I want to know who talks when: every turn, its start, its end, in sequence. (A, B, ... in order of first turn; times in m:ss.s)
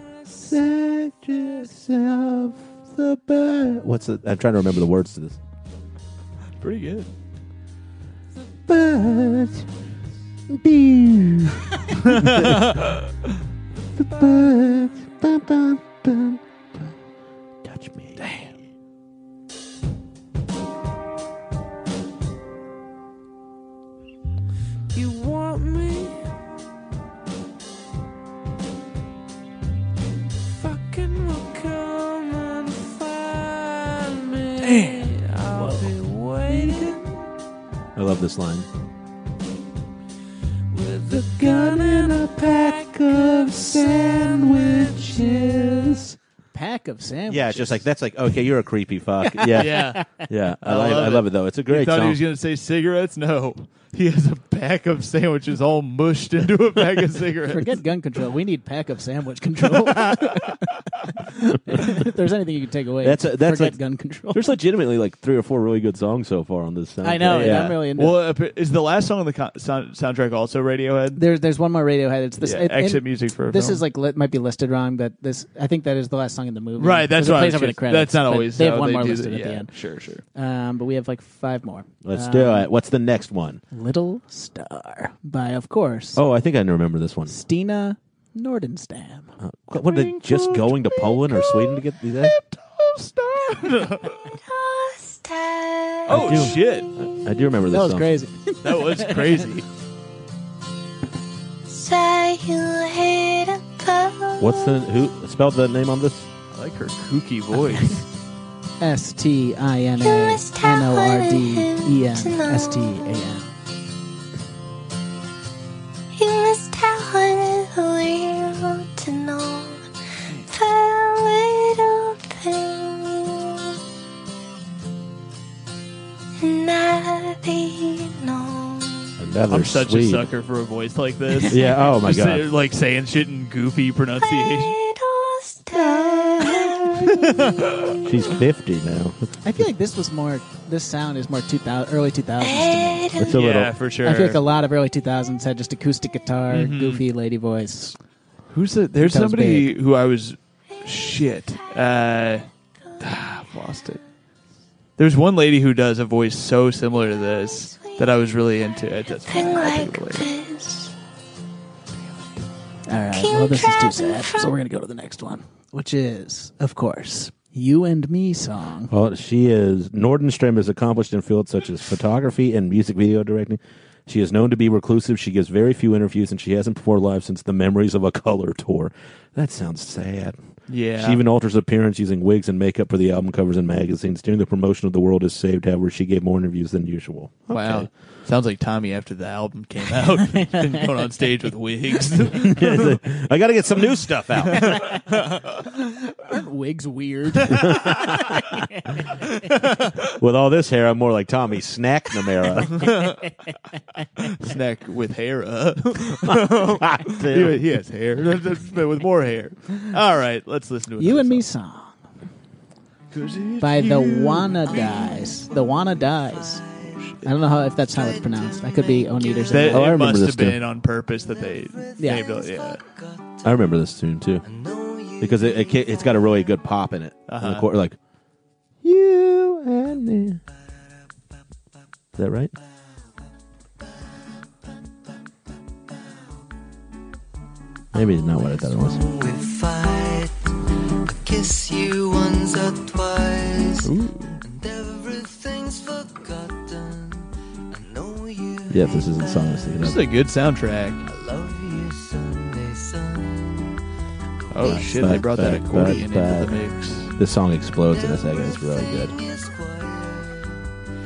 0:00.4-0:05.4 A
0:06.6-0:07.1 B
0:08.7-0:09.7 A
0:10.5-0:12.8 A
0:12.0-0:13.1 B
0:14.0-0:16.4 A
0:17.6-0:18.2 A
0:24.9-0:26.3 C
0:30.6-0:37.1 C
0:34.6-0:36.0 B
0:37.9-0:38.7 A
0:40.7-0:45.7 C
0:41.1-0:46.2 A
0:46.5-0:47.8 D
0:47.3-0:52.2 A
0:49.2-0:50.2 D
0:49.6-0:57.8 B
0:57.5-1:04.5 D
1:03.0-1:03.8 A
1:04.3-1:07.8 A
1:07.0-1:08.2 D
1:07.3-1:11.2 B
1:11.2-1:19.7 D
1:12.4-1:13.8 B
1:16.8-1:20.2 B
1:20.3-1:22.7 D
1:22.0-1:23.6 A
1:23.7-1:26.2 D
1:26.1-1:27.3 A
1:27.3-1:29.3 D
1:29.4-1:32.4 A
1:29.8-1:30.7 B
1:32.5-1:34.2 B
1:34.1-1:37.1 E
1:36.1-1:36.9 B
1:36.1-1:38.1 A
1:37.7-1:39.5 D
1:38.6-1:39.7 B
1:41.7-1:44.8 E
1:44.4-1:46.3 A
1:46.5-1:48.0 B
1:47.7-1:48.0 D
1:48.8-1:53.5 D
1:50.0-1:53.1 E
1:56.1-2:03.8 E
2:06.4-2:09.2 E
2:09.2-2:10.3 A
2:09.5-2:14.7 B
2:11.5-2:12.5 A
2:14.2-2:18.0 E
2:15.9-2:17.2 A
2:17.2-2:18.0 B
2:18.0-2:19.4 A
2:19.4-2:23.2 D
2:22.4-2:23.3 E
2:23.2-2:23.7 A
2:23.2-2:24.4 B
2:24.0-2:28.0 D
2:26.5-2:27.0 B
2:28.5-2:32.5 B
2:29.0-2:29.7 D
2:33.0-2:34.0 B
2:35.0-2:40.3 B
2:39.1-2:40.9 E
2:42.9-2:48.9 D
2:43.1-2:44.5 E
2:48.9-3:00.4 A
3:00.7-3:01.2 B
3:01.0-3:07.9 A
3:07.5-3:13.0 B
3:12.3-3:14.8 A
3:14.5-3:15.6 B
3:14.5-3:19.3 D
3:17.5-3:18.1 A
3:17.5-3:17.8 B
3:19.3-3:20.1 B
3:20.1-3:22.9 A
3:22.7-3:23.3 B
3:24.2-3:31.4 B
3:26.2-3:27.6 A
3:31.0-3:32.0 D
3:33.1-3:34.8 B
3:33.6-3:36.6 D
3:34.7-3:37.1 F
3:37.2-3:40.0 D
3:37.8-3:39.7 F
3:39.5-3:42.8 B
3:39.6-3:40.6 A
3:41.3-3:43.5 F
3:42.0-3:42.2 D
3:43.4-3:44.4 A
3:44.4-3:46.4 F
3:45.2-3:48.0 A
3:47.3-3:47.7 B
3:48.8-3:50.4 A
3:52.1-3:52.5 A
3:57.9-3:59.1 A
3:58.3-4:09.8 F
4:03.8-4:04.4 B
4:08.7-4:10.0 A
4:09.8-4:11.0 B
4:11.0-4:13.8 F
4:14.5-4:15.2 F
4:14.5-4:17.1 B
4:14.6-4:16.6 A
4:17.2-4:19.1 A
4:17.8-4:20.6 F